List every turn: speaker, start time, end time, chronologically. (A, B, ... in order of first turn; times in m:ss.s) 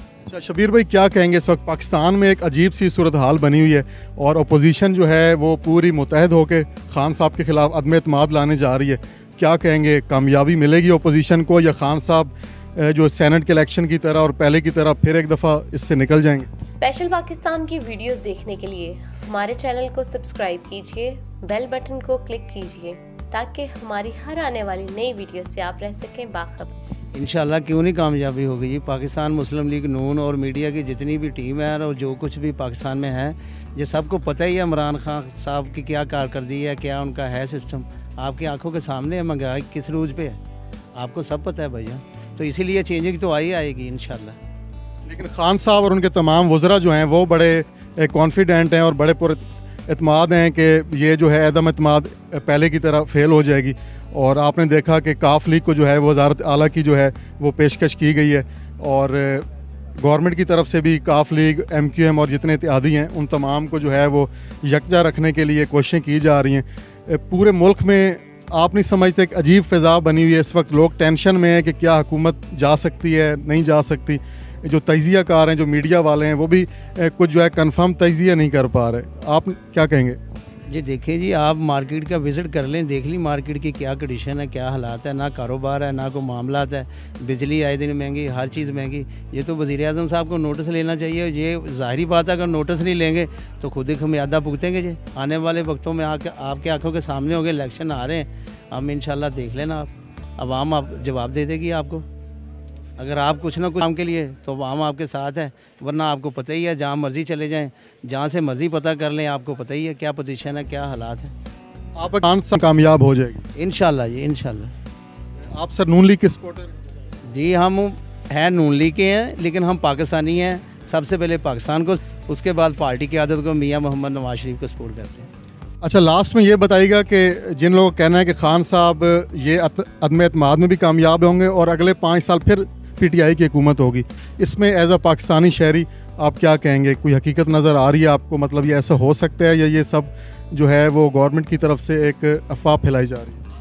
0:00.3-0:16.5 A
0:16.7-0:26.8 B
0:27.1-0:40.4 C
0:41.0-0:44.4 C
0:45.1-0:59.5 A
1:00.0-1:20.2 A
1:20.7-1:42.0 C
1:43.0-1:51.3 C
1:52.0-1:53.4 A
1:53.6-1:54.7 C
1:55.5-1:56.7 A
1:57.3-2:05.3 C
2:05.8-2:23.4 A